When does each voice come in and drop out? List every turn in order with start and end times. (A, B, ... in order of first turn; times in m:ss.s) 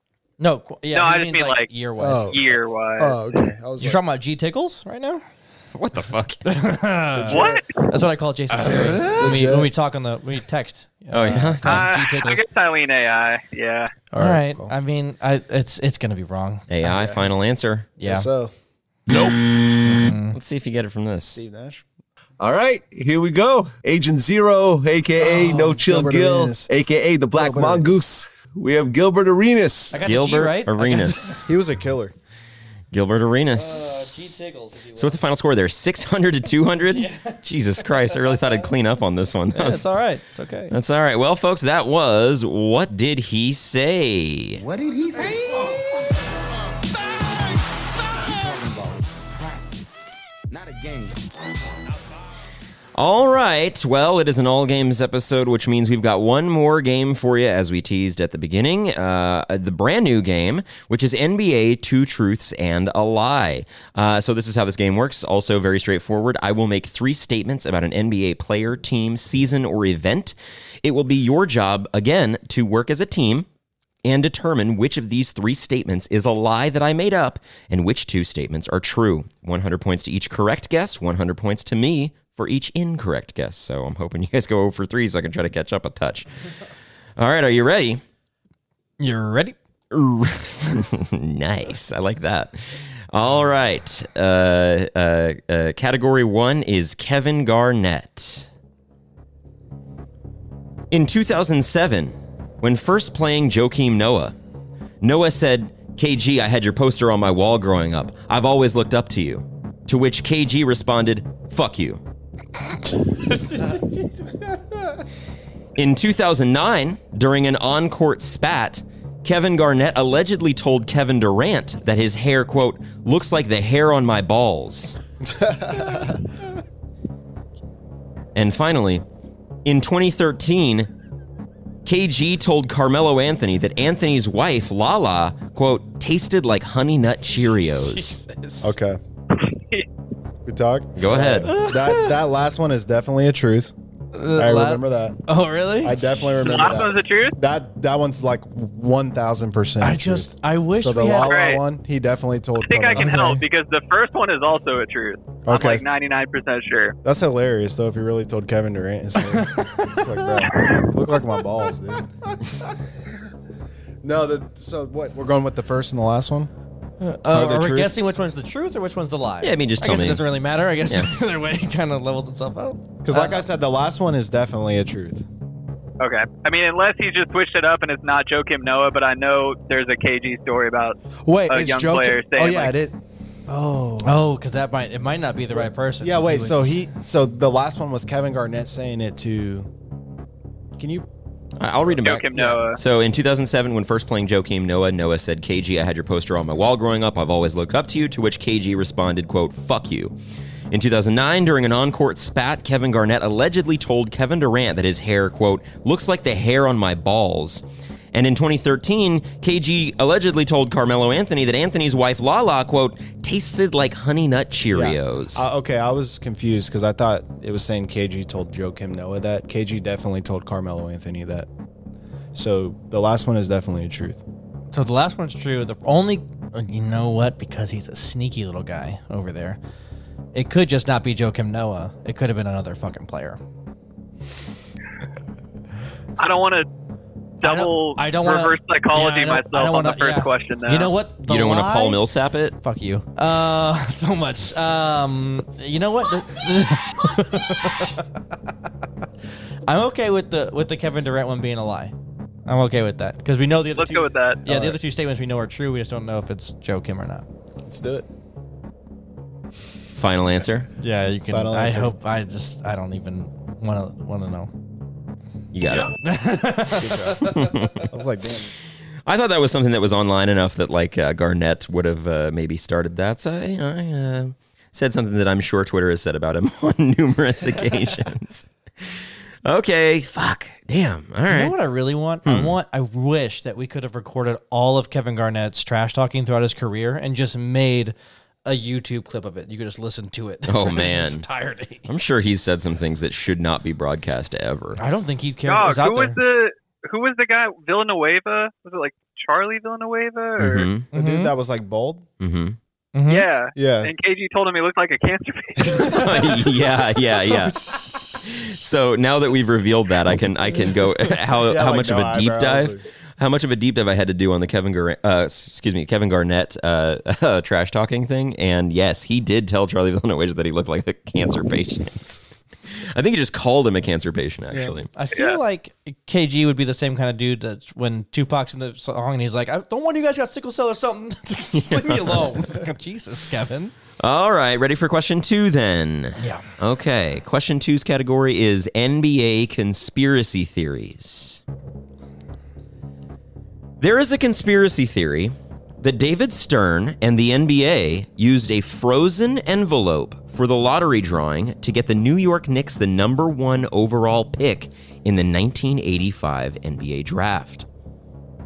0:00.4-0:02.3 A
0:00.9-0:01.7 B
0:02.0-0:04.0 C
0:02.2-0:03.2 B
0:03.8-0:05.2 A
0:05.8-0:06.4 D
0:06.4-0:12.4 A
0:07.2-0:07.6 C
0:07.3-0:07.8 B
0:08.6-0:09.2 D
0:08.8-0:09.7 C
0:11.1-0:11.8 D
0:11.6-0:13.9 B
0:14.1-0:14.7 C
0:14.1-0:16.7 A
0:16.7-0:17.9 D
0:16.8-0:17.3 C
0:18.0-0:18.3 A
0:18.0-0:18.5 C
0:19.8-0:20.4 A
0:20.1-0:21.4 D
0:21.3-0:21.8 C
0:22.4-0:30.0 E
0:25.2-0:26.7 C
0:27.3-0:28.0 C
0:29.9-0:31.5 A
0:30.0-0:31.5 D
0:31.5-0:32.2 C
0:32.9-0:34.1 D
0:33.6-0:35.2 A
0:35.0-0:39.9 D
0:36.9-0:37.4 A
0:39.5-0:40.7 A
0:40.7-0:44.6 D
0:48.3-0:49.6 F
0:50.5-0:51.2 F
0:53.0-1:13.5 D
1:14.0-1:26.3 D
1:27.2-1:28.0 D
1:29.0-1:29.6 A
1:29.9-1:38.5 D
1:40.9-1:44.4 D
1:45.0-1:52.0 D
1:53.4-1:53.8 A
1:55.8-2:05.0 D
2:05.2-2:06.2 C
2:08.4-2:09.0 D
2:09.6-2:10.9 D
2:11.9-2:18.2 D
2:17.4-2:18.7 A
2:18.6-2:19.0 C
2:19.4-2:19.9 B
2:20.4-2:23.7 C
2:21.0-2:21.5 D
2:21.5-2:22.2 A
2:24.2-2:26.9 A
2:24.4-2:25.2 C
2:25.8-2:33.3 C
2:26.3-2:27.4 B
2:29.8-2:31.4 A
2:31.2-2:31.6 B
2:32.6-2:37.0 B
2:32.9-2:33.4 A
2:35.4-2:35.9 C
2:37.0-2:42.1 C
2:39.2-2:40.6 A
2:44.0-2:46.5 C
2:47.0-2:53.4 A
2:47.3-2:47.9 C
2:49.4-2:50.2 D
2:53.0-2:55.2 C
2:56.0-3:01.0 B
3:01.2-3:04.2 C
3:01.5-3:02.7 B
3:04.0-3:06.7 A
3:05.5-3:09.7 C
3:10.8-3:11.1 C
3:11.6-3:20.1 D
3:12.0-3:12.8 B
3:12.3-3:12.6 C
3:20.7-3:35.4 D
3:34.7-3:41.5 C
3:42.4-3:44.2 C
3:44.7-3:49.6 A
3:50.3-3:53.4 A
3:56.2-3:56.7 B
3:57.4-4:00.9 B
3:57.4-4:02.0 A
4:01.3-4:02.6 D
4:02.6-4:08.1 A
4:09.7-4:11.9 A
4:12.5-4:17.3 A
4:13.8-4:14.4 B
4:14.4-4:14.8 C
4:17.6-4:18.1 C
4:20.0-4:20.7 D
4:20.8-4:24.5 A
4:21.3-4:21.9 C
4:25.5-4:25.9 D
4:26.0-4:27.7 A
4:26.8-4:27.3 C
4:27.3-4:27.9 D
4:27.9-4:28.5 C
4:29.1-4:41.6 D
4:41.3-4:48.0 A
4:42.2-4:42.5 D
4:48.5-4:51.9 A
4:50.5-4:51.2 D
4:51.9-4:54.8 D
4:54.8-4:56.2 A
4:55.4-5:00.7 B
5:00.4-5:00.9 D
5:00.9-5:02.1 C
5:00.9-5:01.3 A
5:02.2-5:02.6 D
5:03.0-5:03.3 A
5:03.1-5:05.9 B
5:03.6-5:03.9 C
5:05.7-5:24.9 D
5:11.5-5:12.8 C
5:24.5-5:33.7 A
5:25.1-5:25.4 B
5:31.5-5:32.4 D
5:34.0-5:41.4 D
5:36.2-5:36.5 A
5:43.8-5:57.7 D